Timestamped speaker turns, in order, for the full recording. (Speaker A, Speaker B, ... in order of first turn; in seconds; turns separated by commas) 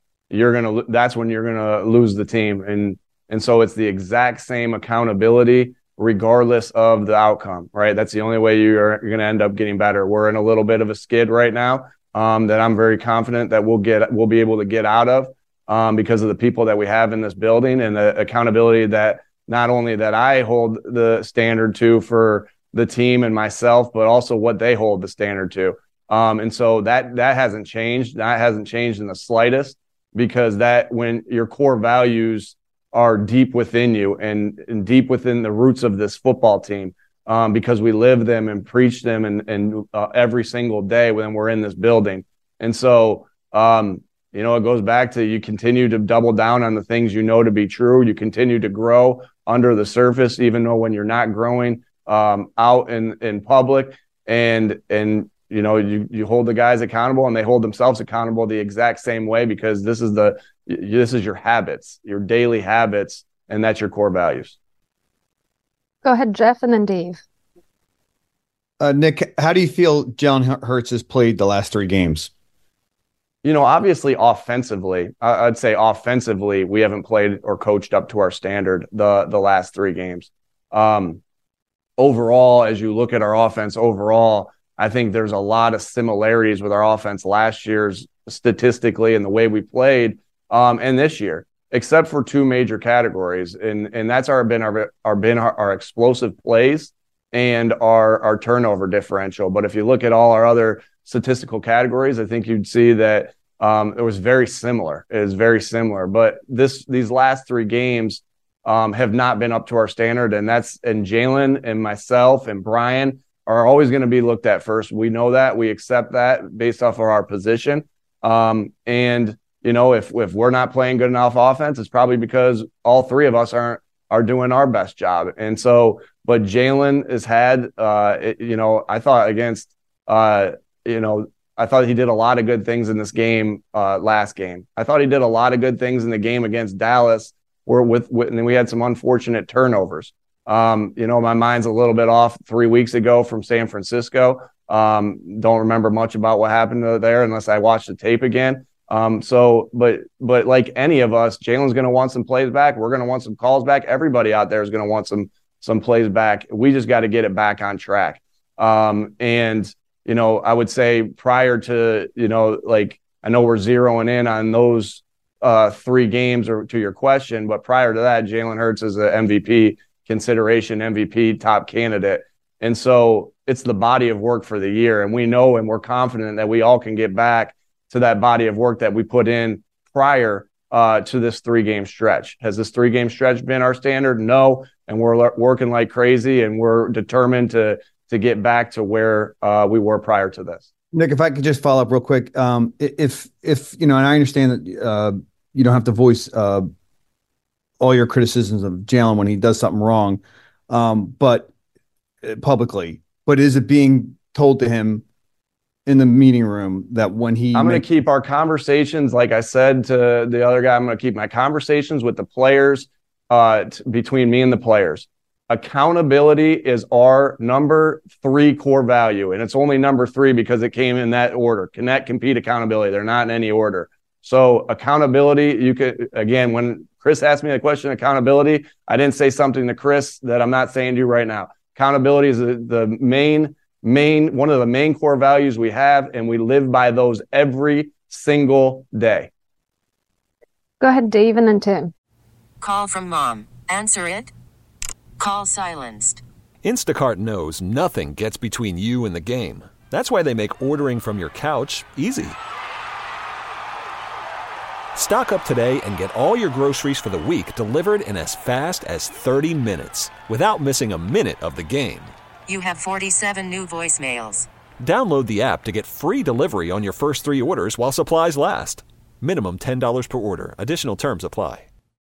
Speaker A: 0.3-64.5, Speaker B: 66.0-67.2, Speaker C: 68.8-72.3, Speaker A: 73.4-81.2, Speaker A: 82.0-190.6, Speaker C: 190.9-196.7, Speaker C: 197.8-201.5, Speaker C: 202.2-205.0, Speaker C: 205.8-207.8, Speaker A: 207.5-239.3, Speaker B: 240.8-241.9, Speaker D: 242.6-244.3, Speaker D: 245.2-246.2, Speaker E: 246.6-252.3, Speaker E: 254.9-262.1, Speaker D: 262.5-264.5, Speaker E: 264.8-271.7